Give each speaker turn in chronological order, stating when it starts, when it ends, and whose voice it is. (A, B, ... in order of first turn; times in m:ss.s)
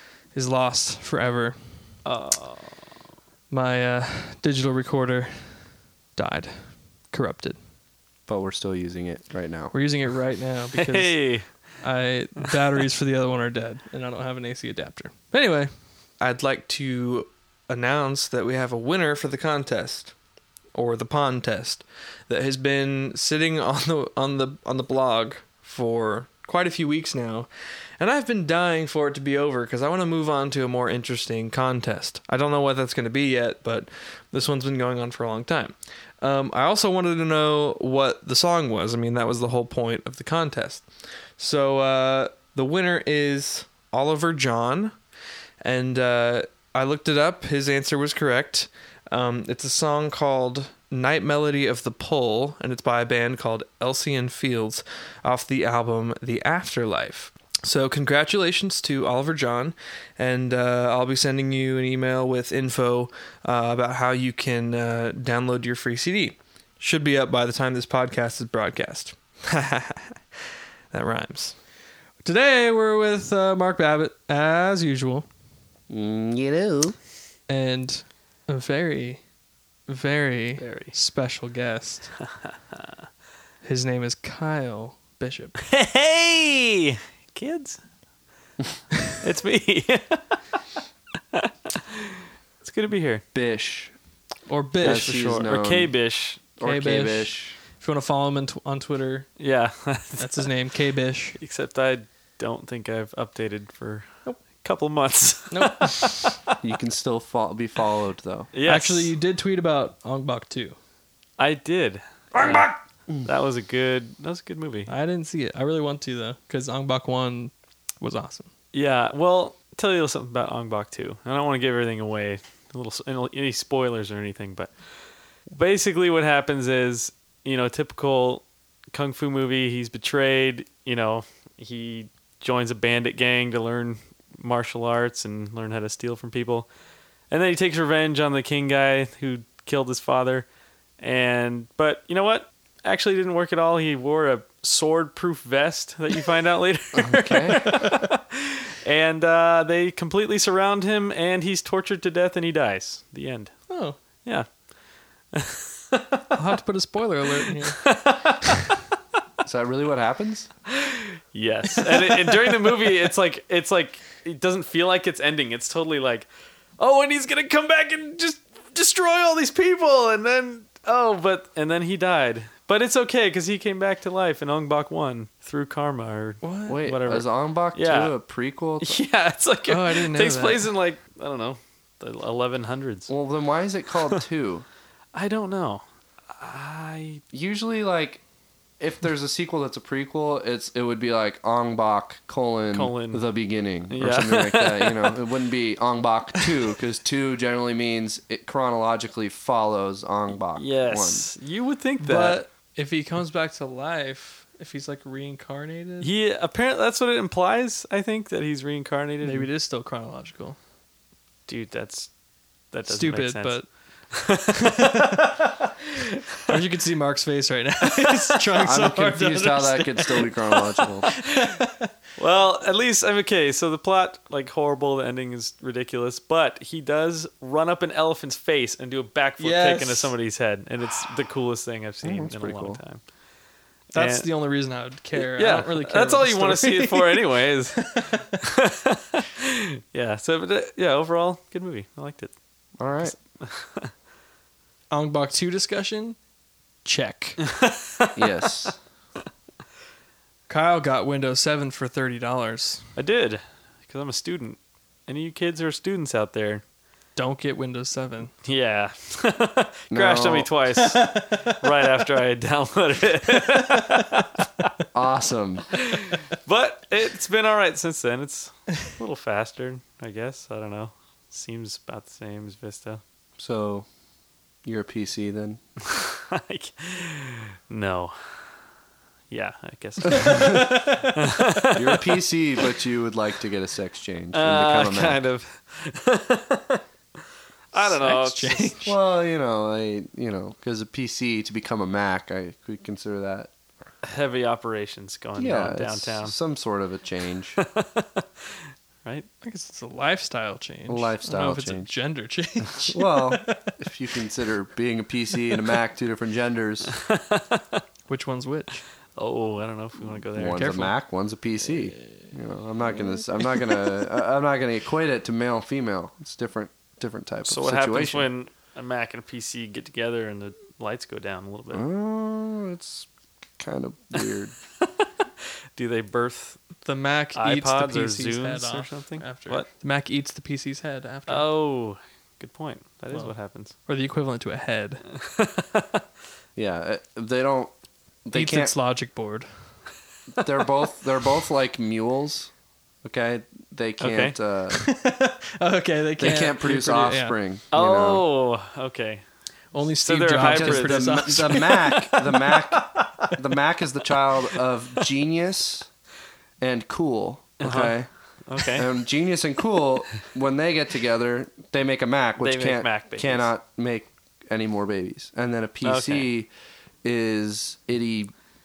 0:00.3-0:02.0 A
0:02.0-0:02.9 B
0:03.5-0:07.6 A
0:08.3-0:09.7 C
0:09.7-0:20.1 A
0:10.7-0:11.6 B
0:20.7-0:27.5 A
0:28.0-0:45.0 A
0:45.6-1:10.2 A
1:10.9-1:11.6 A
1:12.2-1:15.3 A
1:15.9-1:17.0 C
1:17.5-1:19.2 A
1:19.9-1:22.1 A
1:20.6-1:20.9 B
1:23.6-1:25.6 A
1:25.6-1:27.8 B
1:29.2-1:30.4 B
1:31.3-1:33.2 B
1:33.3-1:33.9 C
1:34.5-1:35.2 A
1:34.8-1:35.9 C
1:34.8-1:36.4 B
1:36.6-1:37.6 C
1:36.6-1:39.3 A
1:39.4-1:40.5 B
1:40.2-1:41.4 A
1:41.4-1:46.6 B
1:45.5-1:46.3 A
1:46.6-1:48.5 C
1:48.5-1:49.1 B
1:48.6-1:50.8 A
1:51.4-1:52.7 B
1:52.4-1:53.3 C
1:53.2-1:54.9 B
1:54.9-1:58.5 A
1:58.7-2:16.7 B
2:17.3-2:20.5 B
2:21.0-2:33.5 B
2:27.0-2:27.6 C
2:27.7-2:28.0 A
2:33.7-2:34.0 A
2:35.3-2:36.4 B
2:36.3-2:37.8 A
2:37.7-2:38.6 B
2:39.4-2:40.5 C
2:40.7-2:58.1 B
2:56.4-2:56.8 A
2:56.7-2:59.0 C
2:58.8-3:03.1 B
2:59.7-3:00.7 A
3:03.1-3:04.7 C
3:05.1-3:07.2 B
3:07.3-3:08.2 C
3:08.8-3:21.3 C
3:12.7-3:13.2 B
3:13.9-3:15.2 B
3:20.5-3:22.4 B
3:22.0-3:26.1 A
3:26.0-3:29.5 B
3:29.2-3:30.6 A
3:31.5-3:32.1 B
3:32.7-3:35.3 B
3:32.9-3:33.7 A
3:34.6-3:35.4 A
3:36.0-3:36.6 B
3:36.5-3:41.9 A
3:38.6-3:41.1 C
3:42.2-3:53.0 B
3:49.4-3:50.1 A
3:52.0-3:52.8 C
3:53.9-3:54.3 B
3:53.9-3:58.2 A
3:55.2-4:02.3 B
4:02.8-4:03.2 C
4:03.1-4:03.9 B
4:04.9-4:06.2 A
4:06.8-4:07.4 A
4:07.5-4:08.2 B
4:08.2-4:08.8 C
4:10.5-4:12.9 A
4:13.0-4:16.6 B
4:17.2-4:18.3 A
4:18.4-4:24.3 B
4:19.9-4:20.5 C
4:20.9-4:21.6 A
4:24.9-4:25.7 C
4:25.7-4:33.0 B
4:33.4-4:33.9 C
4:34.6-4:35.6 C
4:35.9-4:38.6 B
4:39.3-4:42.1 B
4:40.1-4:41.2 A
4:40.2-4:40.6 C
4:41.7-4:45.2 C
4:44.3-4:46.8 B
4:47.7-4:48.8 B
4:47.7-4:49.0 A
4:48.8-4:53.5 C
4:54.0-4:56.4 B
4:55.4-4:57.6 C
4:57.6-4:59.3 B
4:59.4-5:03.7 A
5:00.9-5:01.9 C
5:02.8-5:06.9 C
5:06.9-5:07.8 B
5:08.1-5:08.8 A
5:09.2-5:10.9 B
5:10.3-5:18.3 C
5:17.5-5:21.9 B
5:21.7-5:23.1 C
5:23.6-5:24.5 C
5:25.8-5:26.6 B
5:26.8-5:31.5 A
5:27.4-5:29.7 B
5:31.3-5:33.7 B
5:33.9-5:35.0 A
5:35.1-5:36.0 B
5:36.6-5:37.7 C
5:38.2-5:38.7 C
5:38.3-5:39.5 A
5:40.4-5:42.5 C
5:43.0-5:44.9 C
5:44.0-5:44.4 B
5:44.8-5:47.4 A
5:46.2-5:48.2 C
5:47.7-5:49.2 B
5:49.7-5:53.3 A
5:49.8-5:51.4 B
5:50.4-5:55.9 C
5:56.6-5:58.1 C
5:57.6-5:58.9 B
5:58.7-6:06.5 C
6:02.4-6:03.5 B
6:05.8-6:06.3 B
6:07.0-6:08.3 C